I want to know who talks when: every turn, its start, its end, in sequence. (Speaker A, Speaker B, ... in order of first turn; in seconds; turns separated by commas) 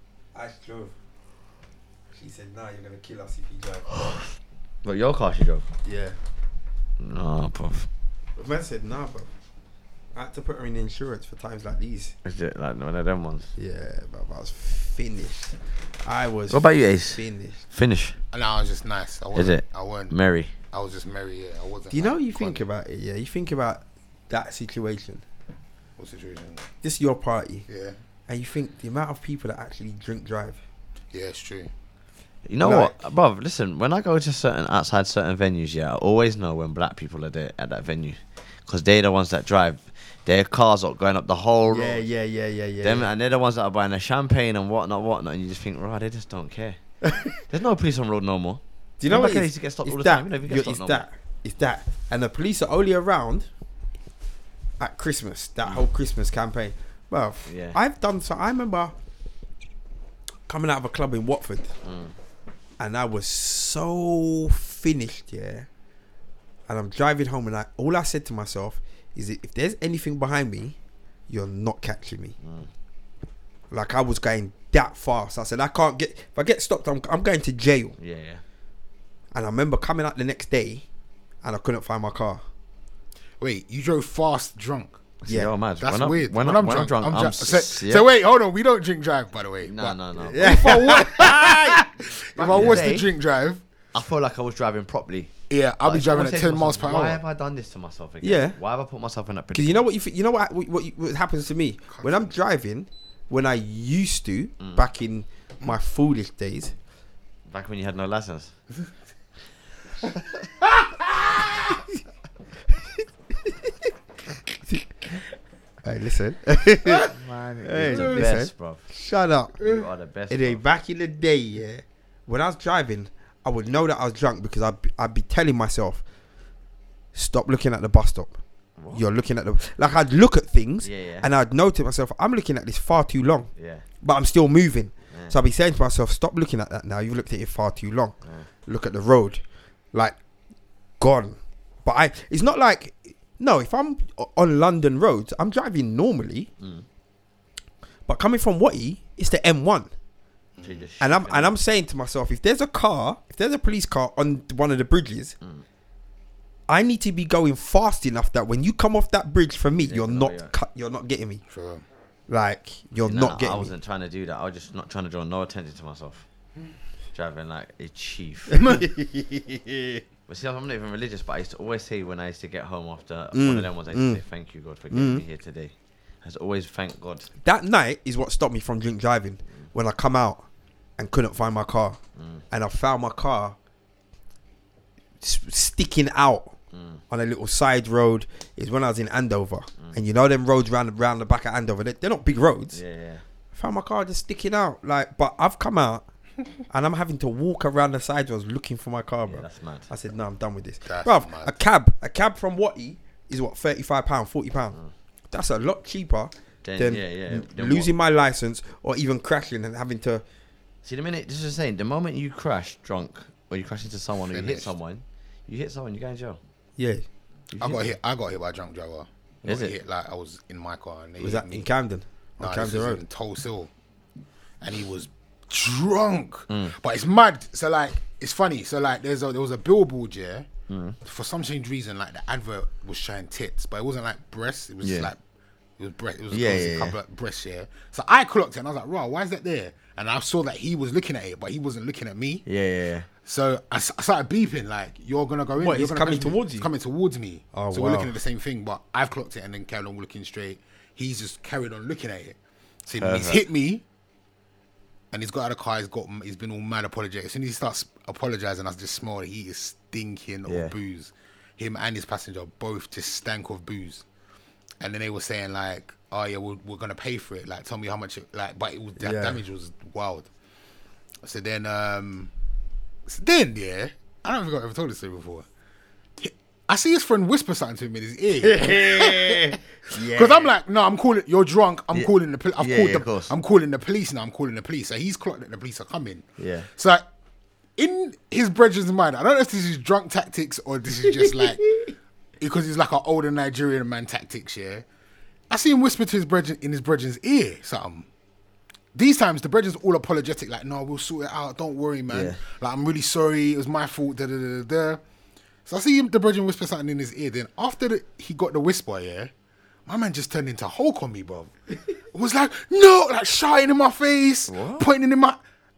Speaker A: 0.3-0.9, Speaker A: 2.1-3.9, Speaker B: 3.9-4.2, Speaker B: 4.8-5.6, Speaker A: 5.8-6.2, Speaker B: 7.0-7.9, Speaker A: 8.4-9.3, Speaker A: 10.1-12.1, Speaker B: 12.2-13.5, Speaker A: 13.6-17.6, Speaker B: 16.5-18.2, Speaker C: 18.3-20.1, Speaker B: 19.3-20.5, Speaker C: 20.7-22.7, Speaker A: 21.9-25.2, Speaker C: 26.0-26.6, Speaker A: 26.8-27.7, Speaker C: 27.7-28.0, Speaker A: 28.3-30.6, Speaker C: 31.1-31.7, Speaker B: 32.5-42.0, Speaker A: 32.6-32.9, Speaker A: 41.7-43.1, Speaker B: 42.8-46.8, Speaker A: 47.0-47.3, Speaker B: 47.5-51.0, Speaker A: 49.0-53.5, Speaker A: 54.8-58.9, Speaker B: 57.5-57.8, Speaker A: 60.5-61.7, Speaker B: 61.8-62.1, Speaker A: 62.8-65.7, Speaker A: 66.7-70.8, Speaker A: 71.3-72.4, Speaker B: 72.4-72.7, Speaker A: 73.7-78.0, Speaker B: 78.0-78.4, Speaker A: 79.3-80.8, Speaker A: 81.4-82.4, Speaker C: 83.4-85.0, Speaker B: 85.2-88.1, Speaker A: 85.2-85.5, Speaker C: 85.8-93.6, Speaker B: 89.6-91.0, Speaker A: 90.3-92.9, Speaker B: 92.4-93.1, Speaker B: 93.9-95.3, Speaker C: 95.5-97.2, Speaker B: 95.8-99.8, Speaker A: 98.2-98.5, Speaker A: 99.5-106.7, Speaker C: 101.9-102.3, Speaker B: 107.5-108.5, Speaker A: 113.0-113.7, Speaker A: 115.8-119.6, Speaker C: 116.8-118.3, Speaker B: 117.7-118.9, Speaker B: 119.6-120.6, Speaker C: 119.6-119.9, Speaker A: 120.3-126.0, Speaker A: 127.1-128.3, Speaker B: 128.8-129.0, Speaker A: 128.9-138.2, Speaker B: 130.8-131.3, Speaker B: 133.6-133.8, Speaker A: 138.7-139.4, Speaker A: 141.0-146.5, Speaker A: 148.1-149.9, Speaker C: 150.6-150.8, Speaker B: 150.6-151.5, Speaker A: 151.0-155.3, Speaker A: 156.7-161.4, Speaker B: 159.9-160.5, Speaker C: 161.5-161.8, Speaker A: 162.3-163.7, Speaker B: 163.0-166.2, Speaker B: 167.1-168.7, Speaker A: 168.5-170.0, Speaker B: 170.3-177.3, Speaker A: 173.3-174.2, Speaker A: 174.9-175.2, Speaker A: 177.4-180.4, Speaker A: 181.0-182.0, Speaker B: 182.2-182.4, Speaker A: 182.5-183.6, Speaker A: 185.2-186.6, Speaker B: 186.7-187.0, Speaker A: 187.1-192.8, Speaker B: 192.7-193.2, Speaker A: 193.5-196.0, Speaker A: 196.7-204.8, Speaker B: 199.3-199.9, Speaker C: 200.8-201.5, Speaker A: 205.3-210.2, Speaker B: 206.6-207.9, Speaker B: 210.8-216.4, Speaker C: 214.3-214.7, Speaker A: 216.8-217.0, Speaker B: 217.5-217.9, Speaker C: 217.6-221.7, Speaker B: 219.4-219.8, Speaker A: 221.2-223.0, Speaker C: 222.4-223.7, Speaker C: 224.6-230.5, Speaker B: 226.5-226.7, Speaker B: 230.7-231.0, Speaker C: 231.0-235.2, Speaker B: 234.8-235.1, Speaker C: 235.8-242.4, Speaker B: 236.3-237.0, Speaker B: 242.4-243.1, Speaker C: 243.2-253.8, Speaker A: 245.6-246.7, Speaker A: 247.5-248.2, Speaker B: 253.0-253.4, Speaker C: 255.1-264.0, Speaker B: 260.5-260.7, Speaker C: 264.8-270.3, Speaker A: 269.0-269.4, Speaker C: 271.2-272.3, Speaker C: 273.1-275.5, Speaker C: 276.2-287.0, Speaker A: 278.4-280.4, Speaker B: 281.9-283.3, Speaker B: 286.4-286.7, Speaker C: 287.8-291.7, Speaker C: 292.4-294.8, Speaker C: 295.5-298.1, Speaker C: 298.9-305.0, Speaker B: 302.1-302.4, Speaker C: 305.6-309.3, Speaker C: 309.9-311.5, Speaker C: 312.1-315.4, Speaker B: 314.5-314.9